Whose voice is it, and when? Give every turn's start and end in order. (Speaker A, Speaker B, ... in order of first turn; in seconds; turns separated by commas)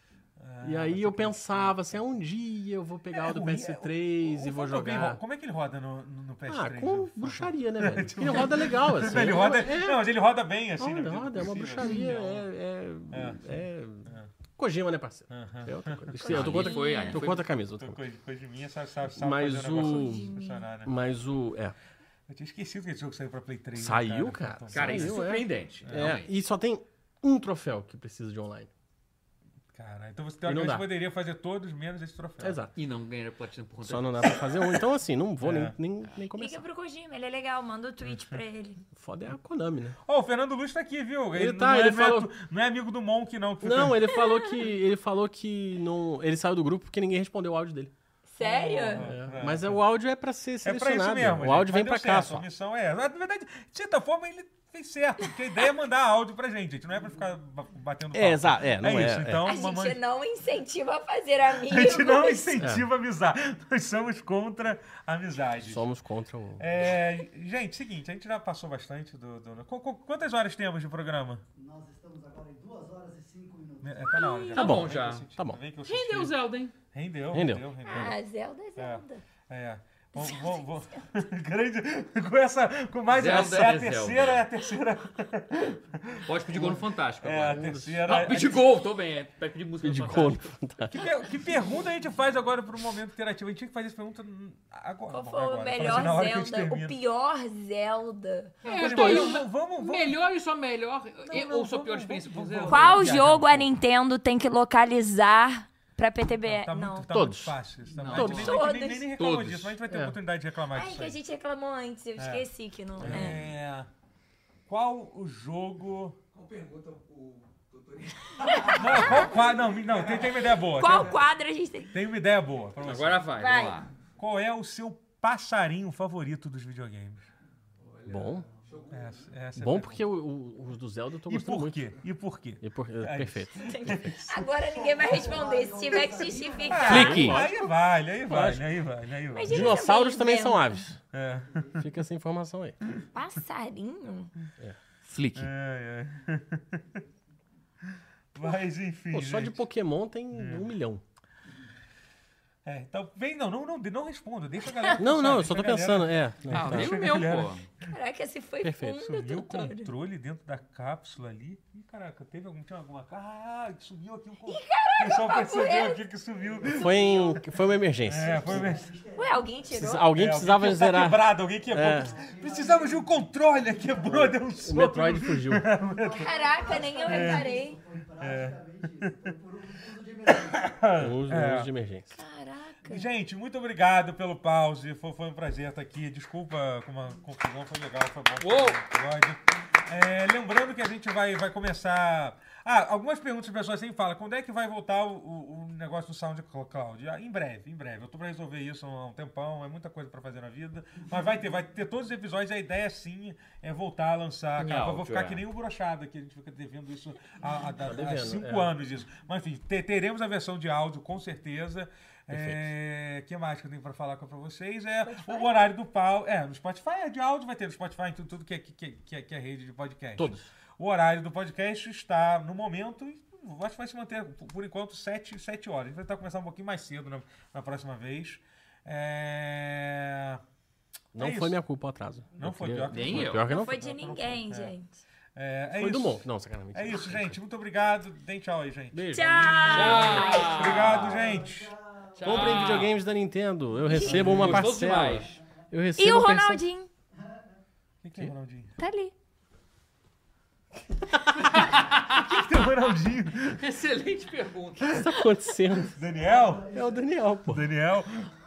Speaker A: 0.4-2.0, Speaker B: 0.6-5.2, Speaker A: 3.1-12.5, Speaker B: 6.5-10.1, Speaker B: 10.8-18.0, Speaker A: 13.1-14.3, Speaker A: 15.3-16.7, Speaker C: 16.2-17.5, Speaker D: 16.2-17.2, Speaker A: 17.7-20.9, Speaker B: 19.1-21.7, Speaker D: 19.8-20.6, Speaker A: 22.3-25.2, Speaker B: 23.7-28.7, Speaker C: 24.7-26.3, Speaker A: 25.8-26.2, Speaker A: 29.7-32.6, Speaker B: 30.4-30.9, Speaker B: 32.4-32.7, Speaker C: 32.7-34.6, Speaker B: 33.8-36.6, Speaker A: 35.4-35.8, Speaker D: 36.3-38.8, Speaker A: 38.0-38.4, Speaker B: 38.9-40.0, Speaker A: 40.0-44.2, Speaker B: 41.3-42.3, Speaker B: 43.6-47.9, Speaker D: 44.1-44.5, Speaker D: 48.3-49.1, Speaker A: 48.4-49.8, Speaker B: 49.0-52.5, Speaker A: 50.6-60.0, Speaker B: 58.1-59.5, Speaker D: 59.4-62.6, Speaker A: 61.6-65.9, Speaker B: 62.6-62.9, Speaker B: 65.6-66.7, Speaker A: 66.6-71.4, Speaker E: 71.5-74.2, Speaker A: 73.8-76.3, Speaker D: 74.1-74.6, Speaker B: 74.5-75.6, Speaker C: 74.5-75.3, Speaker C: 75.8-76.7, Speaker A: 76.9-78.2, Speaker B: 77.3-78.1, Speaker D: 77.8-79.2, Speaker A: 78.8-88.6, Speaker D: 80.1-81.0, Speaker C: 83.1-84.4, Speaker C: 86.2-90.5, Speaker B: 87.4-88.6, Speaker B: 89.8-91.0, Speaker A: 90.9-97.0, Speaker D: 95.1-99.4, Speaker A: 98.6-100.2, Speaker C: 98.6-103.2, Speaker A: 101.3-103.7, Speaker D: 102.7-107.1, Speaker A: 106.4-111.2, Speaker B: 107.1-107.6, Speaker C: 107.9-108.6, Speaker B: 108.1-108.5, Speaker D: 108.2-109.1, Speaker C: 109.2-109.8, Speaker B: 109.9-110.2, Speaker D: 110.7-113.4, Speaker A: 112.2-112.5, Speaker A: 113.0-113.9, Speaker B: 113.0-113.4, Speaker A: 114.7-116.2, Speaker F: 116.3-121.2, Speaker D: 118.4-119.3, Speaker A: 118.7-121.2, Speaker D: 120.7-121.9, Speaker A: 121.9-123.3, Speaker C: 122.8-123.9, Speaker D: 123.4-123.8, Speaker A: 124.2-127.3, Speaker F: 127.8-129.1, Speaker B: 128.1-128.4, Speaker E: 128.4-129.2, Speaker A: 128.9-130.1, Speaker B: 129.5-131.9, Speaker A: 131.3-134.5, Speaker B: 132.6-133.7, Speaker D: 133.5-137.3, Speaker E: 134.7-137.4, Speaker A: 136.7-139.8, Speaker C: 136.8-137.4, Speaker B: 136.9-138.7, Speaker D: 139.3-140.7, Speaker B: 139.4-141.0, Speaker A: 141.1-141.6, Speaker B: 141.8-142.8, Speaker D: 143.1-144.3, Speaker C: 145.0-145.5, Speaker A: 145.3-147.0, Speaker A: 148.3-149.6, Speaker B: 149.1-151.0, Speaker A: 150.3-150.7, Speaker A: 152.6-157.7, Speaker B: 154.9-157.1, Speaker C: 156.5-157.7, Speaker D: 157.9-159.9, Speaker B: 158.6-159.0, Speaker A: 158.9-167.1, Speaker D: 164.4-166.0, Speaker E: 166.3-169.8, Speaker B: 166.8-168.7, Speaker A: 168.0-168.9, Speaker D: 169.1-170.1, Speaker B: 169.7-172.1, Speaker A: 170.0-176.3, Speaker E: 171.7-174.6, Speaker B: 174.0-175.7, Speaker E: 175.7-180.8, Speaker D: 176.2-177.8, Speaker A: 177.1-177.5, Speaker A: 178.2-179.1, Speaker A: 180.3-181.7, Speaker B: 181.0-182.2, Speaker D: 182.2-183.1, Speaker A: 182.9-230.4, Speaker C: 188.4-188.8, Speaker C: 204.6-205.4, Speaker B: 207.8-208.7, Speaker B: 212.3-212.7, Speaker D: 215.0-215.6, Speaker B: 220.2-220.5, Speaker A: 231.1-231.6, Speaker B: 231.1-233.8, Speaker A: 232.4-234.7, Speaker C: 232.9-233.4, Speaker D: 233.5-235.0, Speaker A: 235.3-241.7, Speaker B: 235.7-237.4, Speaker B: 238.9-240.4, Speaker D: 239.1-240.9, Speaker C: 239.7-241.4, Speaker E: 240.6-242.6, Speaker C: 242.2-242.9, Speaker B: 242.2-246.6, Speaker D: 243.9-244.2, Speaker C: 244.0-245.4, Speaker A: 244.3-244.6, Speaker D: 246.0-246.9, Speaker A: 248.0-248.7, Speaker D: 248.8-249.1, Speaker C: 251.4-252.7, Speaker A: 252.1-253.6, Speaker C: 253.6-255.0, Speaker B: 254.8-256.0, Speaker A: 255.9-256.7, Speaker E: 256.0-257.1, Speaker B: 256.7-257.7, Speaker A: 257.5-258.3